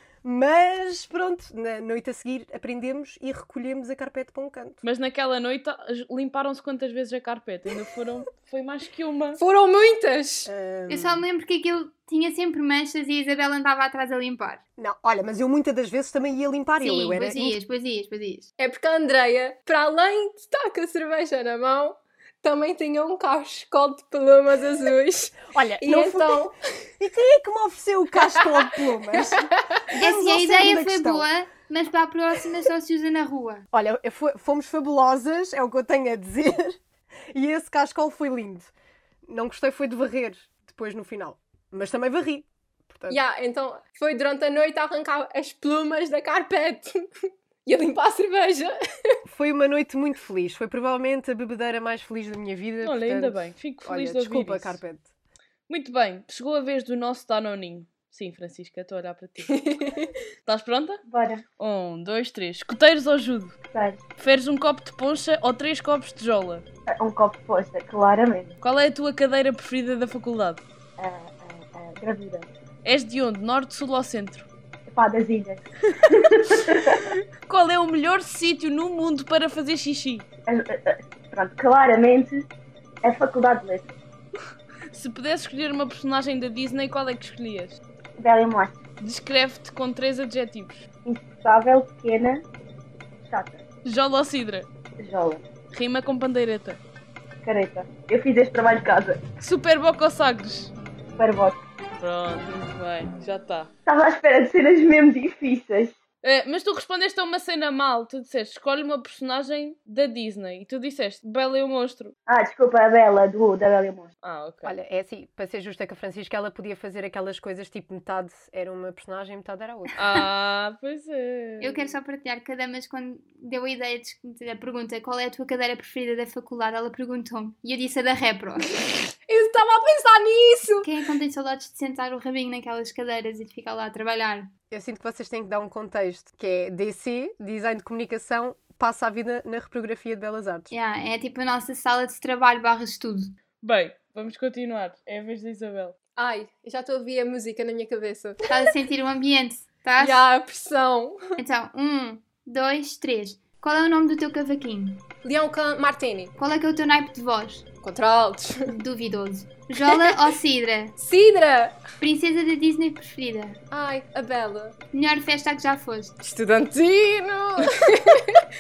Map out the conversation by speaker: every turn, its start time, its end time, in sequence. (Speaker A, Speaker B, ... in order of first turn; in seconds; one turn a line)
Speaker A: 0.2-4.8
Speaker B: 4.8-9.4
Speaker C: 9.3-10.5
Speaker A: 10.4-11.2
Speaker D: 10.9-14.6
Speaker A: 14.8-17.6
Speaker D: 16.8-18.5
Speaker C: 18.6-26.6
Speaker A: 25.5-31.3
Speaker C: 29.1-29.6
Speaker D: 29.9-33.6
Speaker A: 33.7-36.8
Speaker A: 37.3-38.7
Speaker A: 39.2-43.2
Speaker C: 43.1-47.0
Speaker C: 47.6-48.7
Speaker A: 49.3-55.1
Speaker B: 52.8-54.8
Speaker B: 55.7-59.7
Speaker C: 59.4-60.1
Speaker B: 60.5-61.0
Speaker E: 61.1-61.4
Speaker B: 61.6-63.6
Speaker E: 63.7-64.0
Speaker B: 64.2-66.6
Speaker E: 66.9-68.5
Speaker B: 68.6-70.6
Speaker E: 71.0-72.5
Speaker B: 72.8-74.5
Speaker E: 74.9-77.1
Speaker B: 77.5-80.3
Speaker E: 80.5-82.5
Speaker E: 83.0-83.9
Speaker B: 84.9-87.8
Speaker E: 88.2-88.8
Speaker B: 89.0-90.8
Speaker E: 91.0-92.4
Speaker E: 93.2-93.6
Speaker B: 93.8-94.7
Speaker E: 95.0-95.4
Speaker B: 95.7-96.8
Speaker E: 97.4-99.2
Speaker B: 99.4-100.7
Speaker E: 101.2-101.6
Speaker B: 102.0-103.7
Speaker E: 103.9-105.9
Speaker B: 106.2-112.1
Speaker E: 112.3-114.1
Speaker B: 114.2-114.7
Speaker A: 114.6-119.9
Speaker B: 120.0-121.8
Speaker D: 121.6-128.7
Speaker C: 129.3-130.9
Speaker D: 130.8-134.5
Speaker A: 134.7-140.7
Speaker D: 140.7-143.3
Speaker B: 143.6-145.9
Speaker C: 146.2-148.6
Speaker D: 148.5-150.2
Speaker C: 150.0-151.2
Speaker D: 151.4-155.0
Speaker C: 155.2-156.3
Speaker D: 156.3-157.6
Speaker C: 157.8-158.7
Speaker D: 158.7-160.9
Speaker C: 159.8-160.1
Speaker C: 161.0-161.8
Speaker D: 162.0-163.6
Speaker C: 163.7-164.8
Speaker D: 164.9-166.2
Speaker C: 166.3-168.4